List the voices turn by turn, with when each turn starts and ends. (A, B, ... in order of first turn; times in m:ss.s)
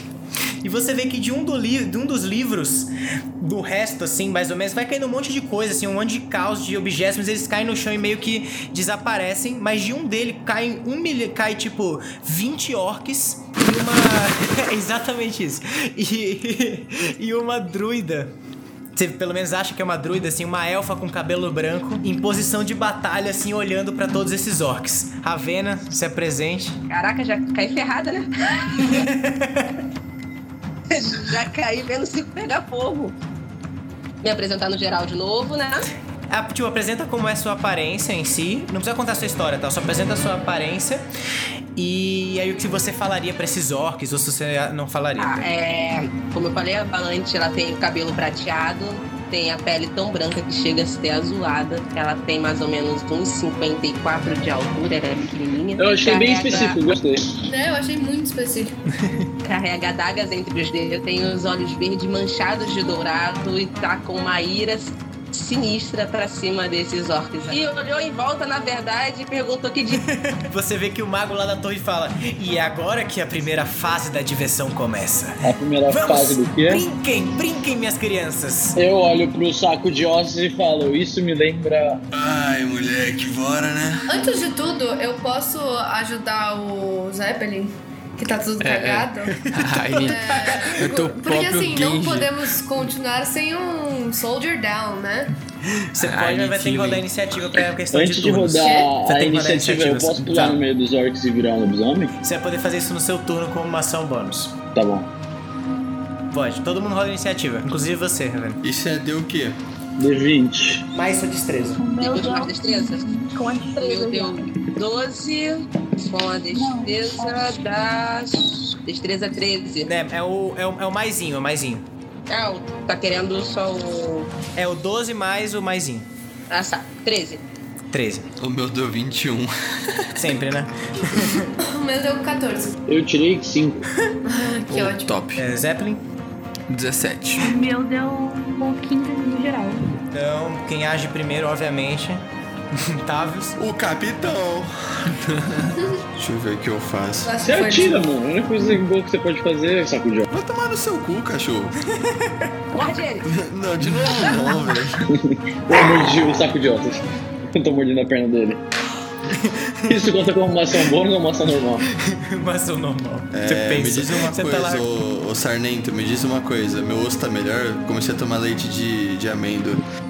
0:00.6-0:18.3 A
0:19.0-0:26.8 A
0:26.9-0:29.1 B
0:28.8-0:29.8 A
0:30.9-0:33.2 B
0:34.2-0:35.9 B
0:36.3-0:41.1 A
0:41.8-0:45.5 A
0:45.2-0:56.9 B
0:55.8-0:57.3 C
0:57.4-0:58.8 D
0:59.4-1:10.0 B
1:09.9-1:18.8 A
1:15.4-1:16.9 C
1:18.8-1:22.0 C
1:22.1-1:24.2 E
1:24.1-1:29.4 D
1:28.6-1:32.4 F
1:29.5-1:30.5 A
1:29.9-1:35.3 D
1:35.8-1:40.6 A
1:36.0-1:37.1 F
1:37.9-1:42.1 C
1:38.6-1:38.9 D
1:42.2-1:44.6 A
1:44.7-1:45.1 C
1:46.3-1:48.6 A
1:48.6-1:49.6 E
1:50.0-1:50.8 C
1:50.9-1:51.8 A
1:51.8-1:54.5 G
1:52.0-1:53.1 B
1:53.8-1:59.9 B
1:56.5-1:57.5 G
1:59.9-2:01.8 A
2:02.3-2:04.3 B
2:04.6-2:06.1 A
2:06.5-2:07.4 B
2:07.9-2:08.3 A
2:08.4-2:10.2 E
2:10.2-2:11.5 A
2:11.2-2:12.8 D
2:12.9-2:13.8 C
2:14.2-2:15.2 D
2:14.7-2:15.4 F
2:15.4-2:16.0 A
2:16.7-2:17.6 F
2:17.4-2:19.8 G
2:20.1-2:23.6 A
2:23.6-2:25.1 E
2:26.2-2:27.4 E
2:27.2-2:28.1 D
2:27.4-2:30.3 C
2:30.3-2:31.8 E
2:32.0-2:32.5 A
2:32.7-2:33.3 B
2:33.2-2:35.1 E
2:35.1-2:38.6 C
2:39.3-2:40.2 A
2:39.9-2:41.8 C
2:41.9-2:44.9 A
2:43.3-2:49.8 E